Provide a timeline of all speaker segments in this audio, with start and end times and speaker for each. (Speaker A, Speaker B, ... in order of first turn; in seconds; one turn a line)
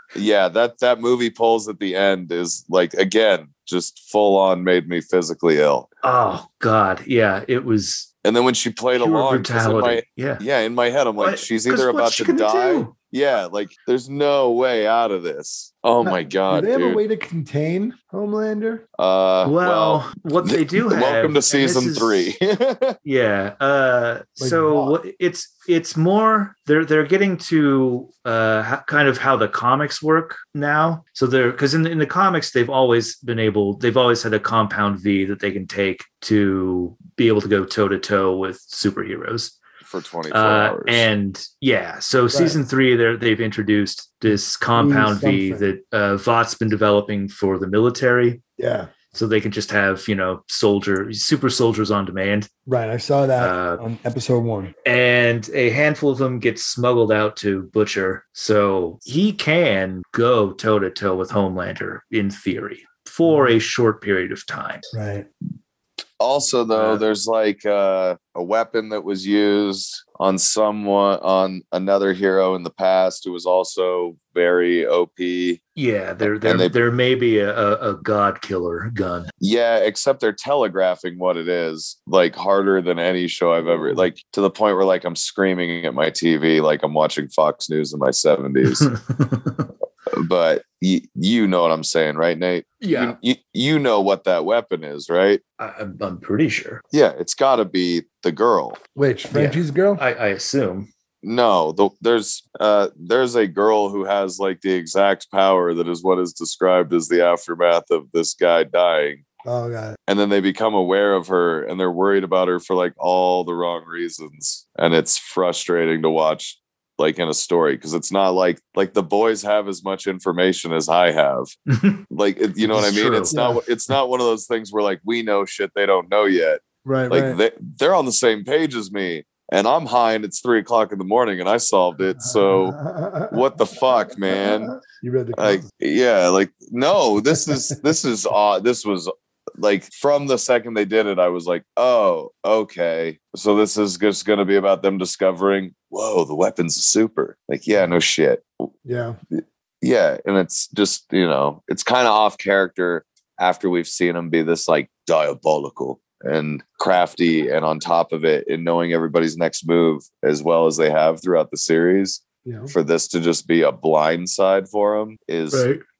Speaker A: 0.1-5.9
Speaker B: 6.0-8.1
Speaker A: 8.2-17.0
Speaker B: 9.0-10.4
Speaker B: 11.2-12.9
Speaker C: 16.0-18.8
Speaker A: 19.0-23.0
Speaker B: 19.4-22.3
Speaker B: 23.1-39.6
Speaker C: 24.4-25.0
Speaker A: 39.9-41.1
Speaker B: 40.3-48.4
Speaker C: 42.3-42.6
Speaker C: 44.8-45.6
Speaker C: 48.6-48.9
Speaker B: 49.1-52.5
Speaker C: 52.7-54.7
Speaker B: 53.4-53.8
Speaker B: 54.9-64.9
Speaker C: 63.3-63.5
Speaker C: 64.9-65.3
Speaker A: 66.2-75.6
Speaker B: 66.7-67.0
Speaker B: 75.8-79.3
Speaker A: 76.2-76.8
Speaker A: 79.4-88.9
Speaker C: 83.6-84.0
Speaker B: 88.7-89.7
Speaker A: 90.1-95.4
Speaker B: 92.8-93.2
Speaker B: 95.6-96.8
Speaker A: 96.9-98.8
Speaker C: 99.0-100.0
Speaker B: 99.3-100.9
Speaker A: 101.2-109.2
Speaker C: 109.5-110.0
Speaker A: 110.1-121.5
Speaker B: 121.7-122.0
Speaker A: 122.1-132.8
Speaker B: 122.6-123.3
Speaker C: 123.3-123.6
Speaker C: 126.8-127.4
Speaker C: 132.5-133.4
Speaker A: 133.3-134.8
Speaker C: 134.3-135.7
Speaker A: 135.4-148.7
Speaker C: 137.5-137.8
Speaker C: 148.8-149.2
Speaker A: 149.4-165.7
Speaker C: 162.4-162.7
Speaker B: 165.5-165.8